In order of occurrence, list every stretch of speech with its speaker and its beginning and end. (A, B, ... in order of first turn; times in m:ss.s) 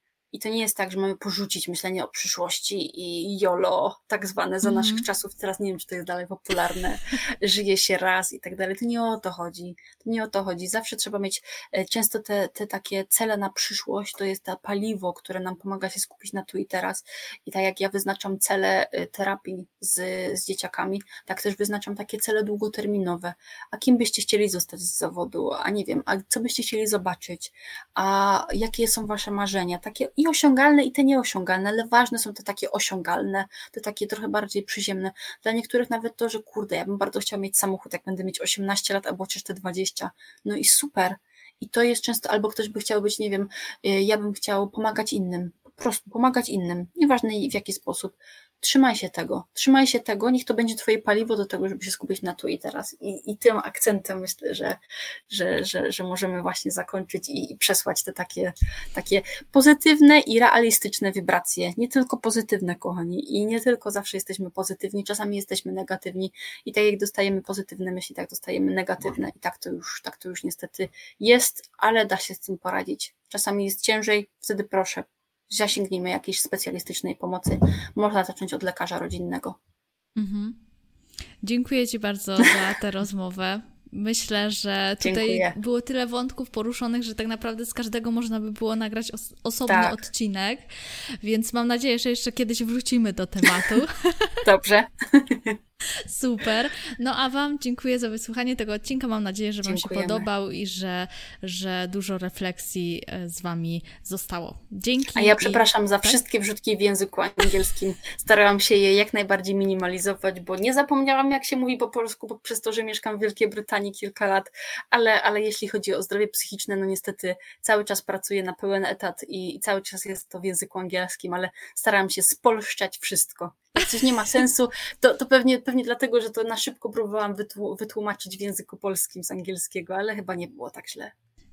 0:00.3-1:19.6 A
0:04.6-0:05.1 B
1:20.2-1:20.6 B
1:21.4-1:30.6 B
1:25.0-1:25.5 A
1:29.7-1:30.0 A
1:31.2-1:34.4 B
1:34.4-1:35.6 A
1:36.1-1:46.2 B
1:39.6-1:40.3 A
1:45.2-2:11.1 A